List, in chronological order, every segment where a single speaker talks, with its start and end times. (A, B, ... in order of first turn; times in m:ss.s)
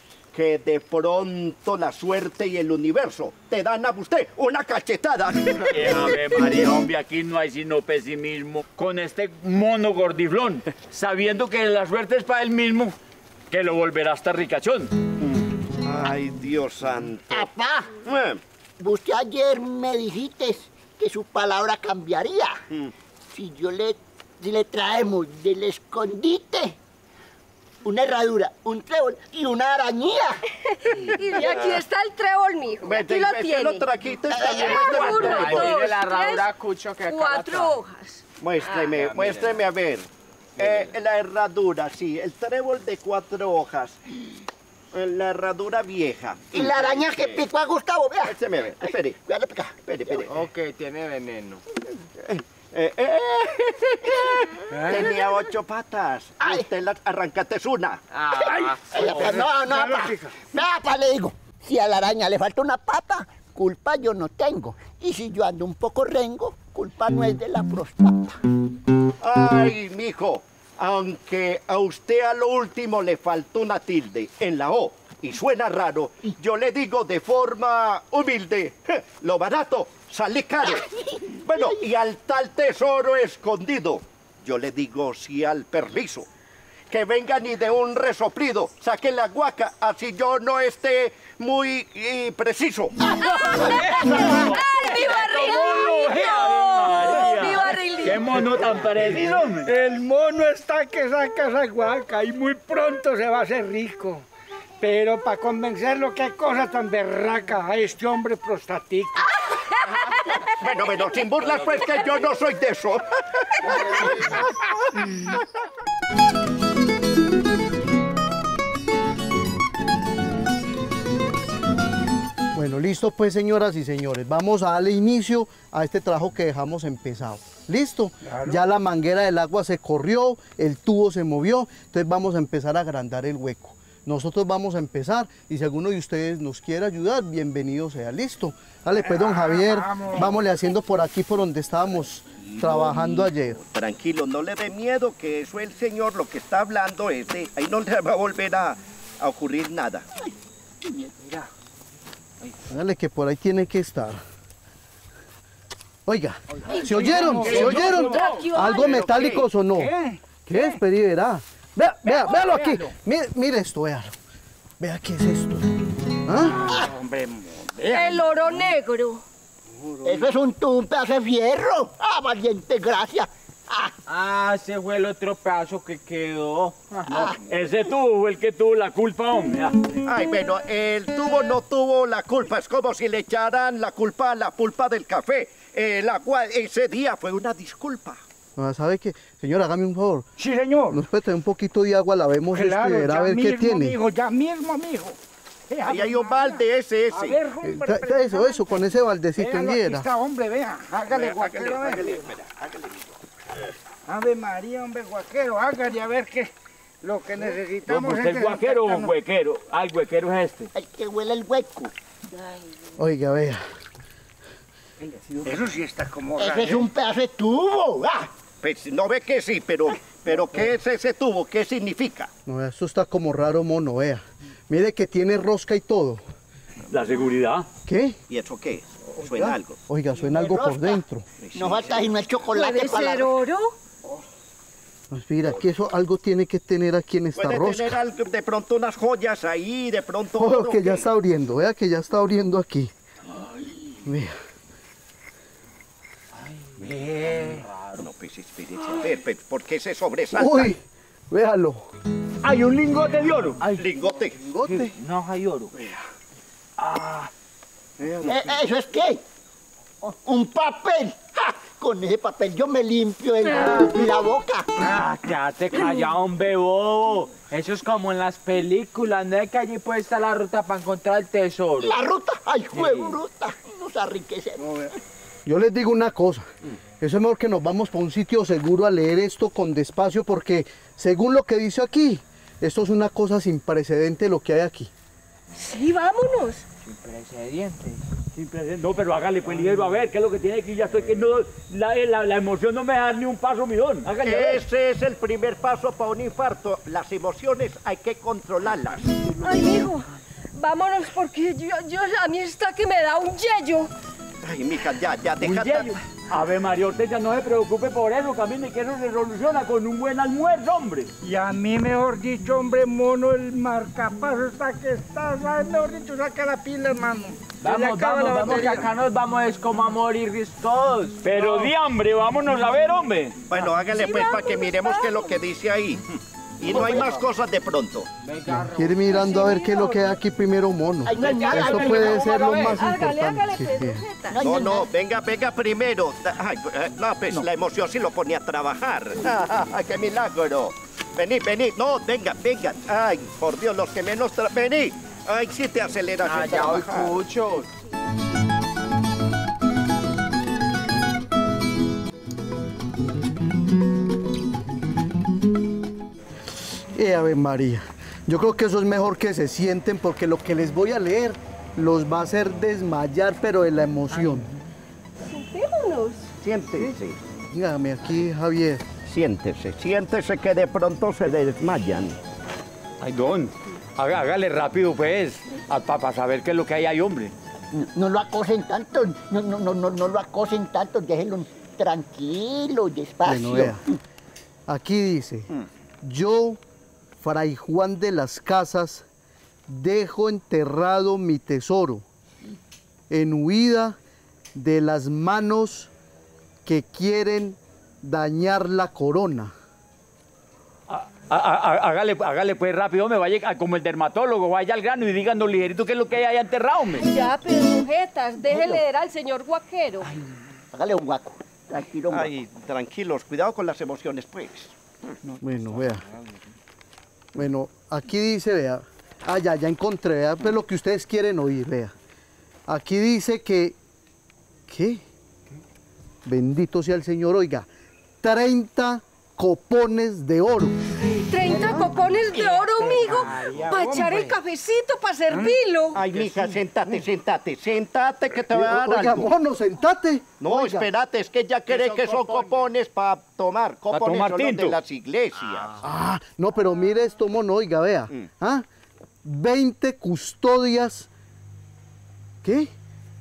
0:00.3-0:06.1 A
0:05.7-0:13.0 B
0:13.5-0:14.9 B
0:15.2-0:17.5 A
0:17.3-0:17.9 C
0:18.0-0:18.4 A
0:18.8-0:22.6 C
0:23.3-0:26.8 C
0:27.8-0:30.4 C
0:30.6-0:33.9 D
0:31.2-0:31.8 A
0:32.8-0:35.9 A
0:34.3-0:35.1 C
0:34.5-0:36.5 D
0:34.5-0:37.8 E
0:37.0-0:38.8 D
0:38.4-0:44.0 A
0:38.8-0:39.7 E
0:40.6-0:40.9 E
0:44.9-0:47.4 A
0:46.5-0:50.3 C
0:48.2-0:49.2 A
0:49.8-0:50.3 A
0:50.3-0:51.6 E
0:52.2-0:58.0 A
0:54.7-0:55.2 F
0:56.4-0:56.7 C
0:58.1-0:59.4 E
0:58.3-1:08.4 C
0:58.9-1:00.4 F
1:09.2-1:26.3 A
1:20.6-1:21.8 C
1:26.9-1:33.0 A
1:33.2-1:38.3 D
1:33.6-1:39.7 B
1:38.4-1:44.2 F
1:44.8-1:49.3 F
1:49.9-1:50.4 D
1:50.5-1:54.4 A
2:02.5-2:23.6 G
2:08.2-2:08.6 F
2:19.0-2:20.3 F
2:22.4-2:30.1 A
2:30.8-2:31.2 C
2:32.7-2:34.2 G
2:36.1-2:39.9 G
2:36.7-2:38.4 F
2:36.7-2:39.2 D
2:37.4-2:39.5 A
2:39.7-2:40.8 F
2:40.5-2:44.1 G
2:42.0-2:42.9 F
2:44.8-2:45.7 G
2:46.2-2:46.7 G
2:46.5-2:48.3 F
2:47.9-2:49.2 D
2:49.8-2:50.3 F
2:50.0-2:53.9 C
2:54.1-2:57.3 E
2:57.1-2:57.4 C
2:57.5-2:59.8 B
3:00.0-3:08.2 A
3:08.6-3:10.3 G
3:10.4-3:11.0 F
3:10.9-3:14.0 G
3:12.5-3:15.2 F
3:15.7-3:22.1 F
3:15.8-3:17.4 A
3:17.6-3:20.1 G
3:21.1-3:23.1 A
3:24.1-3:29.1 F
3:27.9-3:30.7 B
3:30.8-3:31.9 C
3:33.0-3:33.6 G
3:35.4-3:36.9 F
3:36.4-3:38.3 C
3:38.6-3:42.3 A
3:42.5-3:46.2 G
3:46.9-3:47.7 B
3:47.9-3:48.2 G
3:48.3-3:49.8 A
3:49.2-3:51.3 G
3:50.2-3:51.0 C
3:51.4-3:52.1 A
3:51.5-3:53.4 C
3:52.5-3:53.7 D
3:55.1-3:58.0 G
3:57.4-4:01.1 A
4:00.4-4:02.9 G
4:04.0-4:04.4 G
4:06.8-4:07.7 E
4:07.9-4:10.7 A
4:10.3-4:11.8 G
4:12.4-4:13.6 B
4:13.7-4:14.4 A
4:14.4-4:15.0 G
4:14.6-4:15.7 E
4:16.9-4:17.3 E
4:18.0-4:18.6 A
4:18.2-4:19.2 C
4:20.0-4:24.7 C
4:23.4-4:23.9 D
4:24.8-4:32.0 E
4:31.8-4:34.9 C
4:32.7-4:33.2 E
4:35.5-4:36.5 G
4:37.0-4:44.9 G
4:45.6-4:46.7 D
4:46.8-4:48.0 E
4:48.4-4:54.6 B
4:54.2-4:59.3 A
4:59.4-5:03.9 D
5:04.4-5:06.0 A
5:05.4-5:11.1 B
5:11.2-5:18.8 F
5:17.6-5:21.8 E
5:17.7-5:18.8 B
5:21.2-5:23.4 B
5:23.5-5:26.0 A
5:23.8-5:25.4 D
5:26.6-5:28.1 A
5:26.7-5:27.2 C
5:28.2-5:29.6 E
5:28.5-5:34.0 G
5:29.3-5:30.1 D
5:31.0-5:32.7 C
5:31.2-5:32.8 B
5:31.3-5:31.7 E
5:32.7-5:34.4 D
5:34.3-5:34.9 C
5:34.4-5:47.2 A
5:46.2-5:47.7 E
5:56.9-6:04.5 G
6:04.2-6:04.4 F
6:05.2-6:06.3 D
6:06.4-6:07.2 A
6:07.5-6:08.8 G
6:09.1-6:12.2 A
6:13.0-6:17.3 B
6:17.7-6:24.0 C
6:23.2-6:23.8 G
6:24.7-6:25.5 G
6:26.0-6:26.6 G
6:27.2-6:29.0 G
6:29.7-6:32.0 G
6:33.1-6:34.0 G
6:34.6-6:35.9 G
6:36.6-6:39.5 G
6:40.9-6:47.1 B
6:46.9-6:50.1 D
6:50.7-6:52.3 C
6:52.1-6:55.2 A
6:55.4-6:56.0 G
6:57.4-7:01.9 G
7:02.7-7:03.8 G
7:04.7-7:05.0 G
7:06.2-7:07.7 G
7:08.2-7:10.8 G
7:11.0-7:16.0 D
7:11.3-7:14.4 F
7:12.8-7:14.1 E
7:15.9-7:19.3 A
7:16.2-7:16.4 E
7:18.4-7:20.9 G
7:20.4-7:25.8 A
7:23.9-7:24.8 B
7:25.8-7:28.7 G
7:29.2-7:31.1 G
7:32.4-7:32.7 G